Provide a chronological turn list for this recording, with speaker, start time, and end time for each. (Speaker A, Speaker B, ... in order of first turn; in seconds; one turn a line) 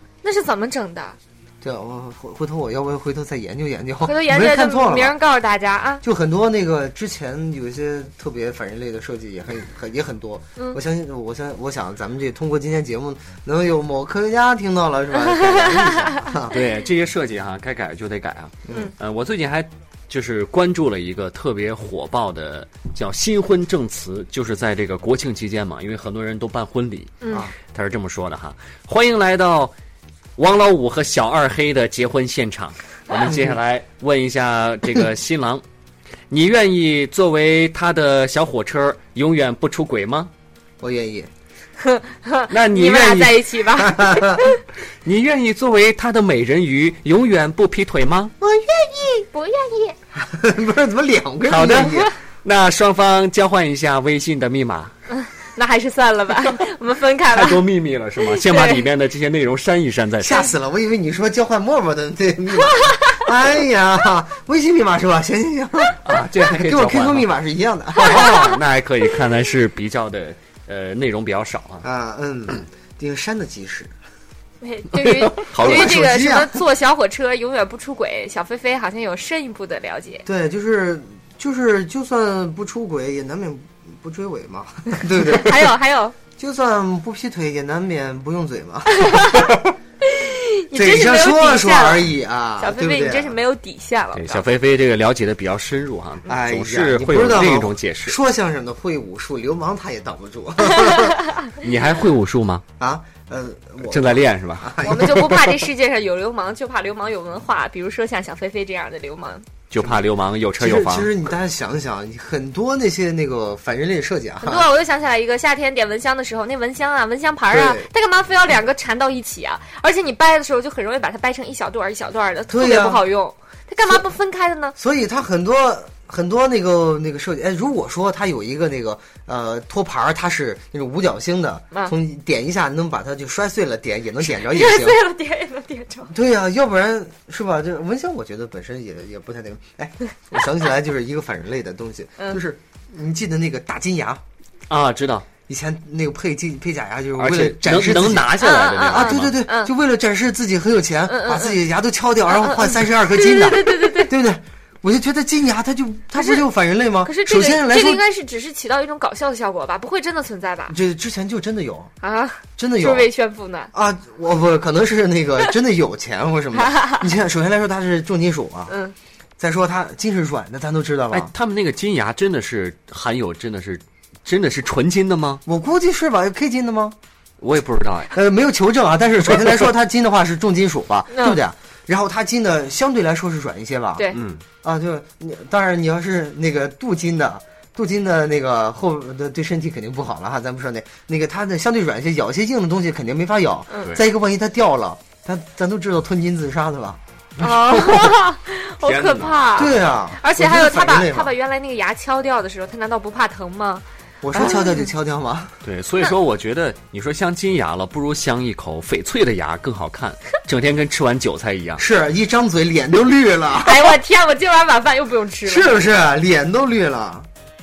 Speaker A: 0.2-1.1
Speaker B: 1.6-5.2
Speaker A: 4.0-6.0
Speaker B: 6.0-16.6
Speaker A: 15.2-16.3
Speaker C: 16.5-29.7
Speaker A: 27.2-27.5
Speaker C: 30.4-35.6
Speaker B: 33.2-33.5
Speaker C: 36.3-40.3
Speaker B: 40.8-41.3
Speaker A: 41.8-44.6
Speaker C: 42.5-43.6
Speaker B: 43.8-44.4
Speaker C: 45.0-48.3
Speaker B: 48.4-49.2
Speaker A: 49.3-50.0
Speaker B: 50.1-52.1
Speaker C: 51.4-54.9
Speaker A: 55.1-57.6
Speaker C: 57.3-60.4
Speaker A: 58.2-58.8
Speaker B: 60.2-68.5
Speaker A: 62.7-63.2
Speaker C: 66.0-67.3
Speaker C: 68.0-71.8
Speaker A: 68.0-68.6
Speaker B: 71.8-73.9
Speaker A: 74.6-80.2
Speaker C: 74.9-76.0
Speaker B: 75.5-76.6
Speaker B: 80.2-85.7
Speaker A: 85.2-86.1
Speaker B: 86.4-89.4
Speaker A: 89.0-89.5
Speaker A: 90.0-94.5
Speaker B: 90.7-93.4
Speaker C: 94.1-98.2
Speaker B: 96.3-101.2
Speaker C: 101.6-102.6
Speaker B: 102.8-105.3
Speaker C: 103.9-105.5
Speaker A: 104.8-109.5
Speaker C: 109.7-111.1
Speaker B: 110.6-114.7
Speaker A: 114.4-124.7
Speaker B: 117.5-117.9
Speaker B: 122.5-123.0
Speaker B: 124.8-135.0
Speaker A: 134.2-136.1
Speaker B: 136.1-144.2
Speaker C: 144.7-145.2
Speaker B: 145.5-158.0
Speaker C: 147.2-149.3
Speaker A: 148.4-149.7
Speaker A: 151.1-151.6
Speaker A: 152.3-154.1
Speaker A: 156.2-156.4
Speaker A: 157.0-160.8
Speaker B: 160.7-161.9
Speaker A: 162.0-163.7
Speaker B: 162.6-163.1
Speaker B: 163.7-168.7
Speaker A: 166.6-167.1
Speaker A: 168.7-168.9
Speaker B: 169.4-171.3
Speaker C: 171.1-175.4
Speaker B: 175.4-176.9
Speaker C: 177.4-178.1
Speaker B: 178.1-197.0
Speaker A: 181.1-181.4
Speaker C: 184.1-184.4
Speaker A: 193.7-193.9
Speaker A: 197.4-203.8
Speaker C: 198.8-199.7
Speaker B: 199.5-201.3
Speaker B: 204.2-205.6
Speaker A: 204.3-204.8
Speaker C: 205.6-211.8
Speaker B: 211.8-214.0
Speaker A: 213.6-215.8
Speaker B: 215.4-217.3